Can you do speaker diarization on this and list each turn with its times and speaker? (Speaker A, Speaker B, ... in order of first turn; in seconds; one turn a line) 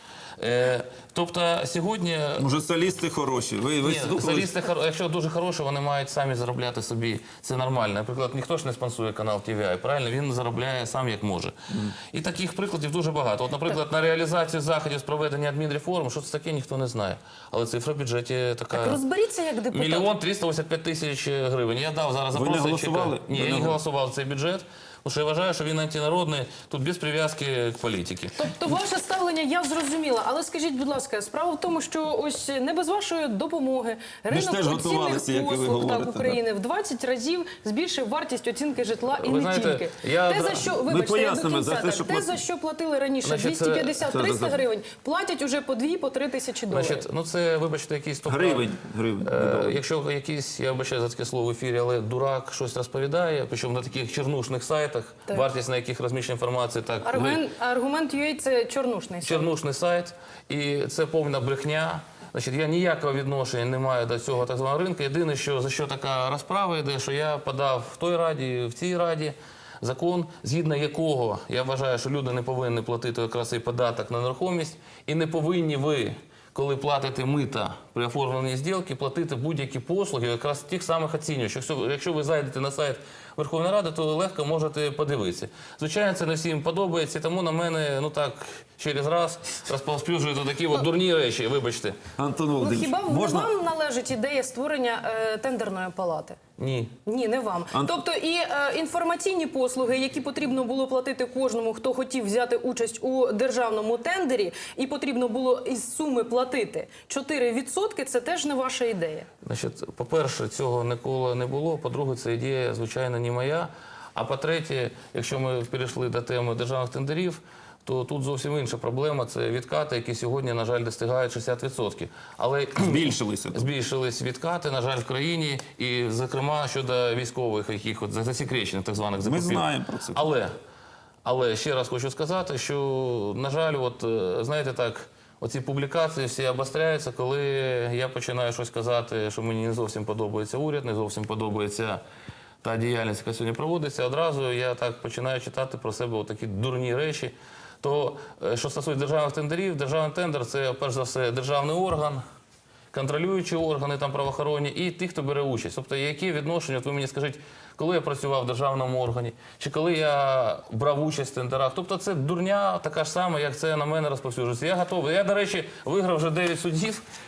Speaker A: 0.4-2.5
Speaker B: 2.4-4.5
Speaker A: 3.8-19.0
Speaker C: 18.7-20.1
Speaker A: 19.7-28.4
Speaker B: 22.3-23.8
Speaker C: 28.4-47.0
Speaker B: 34.3-36.4
Speaker A: 39.2-40.7
Speaker B: 40.9-42.4
Speaker A: 43.2-44.0
Speaker B: 44.0-44.6
Speaker A: 46.7-57.4
Speaker B: 48.2-49.8
Speaker C: 57.0-59.5
Speaker A: 59.2-92.0
Speaker B: 92.2-93.5
Speaker C: 92.6-96.4
Speaker A: 96.6-97.0
Speaker C: 97.0-109.3
Speaker A: 109.4-130.5
Speaker B: 122.8-123.7
Speaker B: 129.2-130.2
Speaker A: 131.2-142.0
Speaker A: 142.6-152.2
Speaker A: 152.9-167.0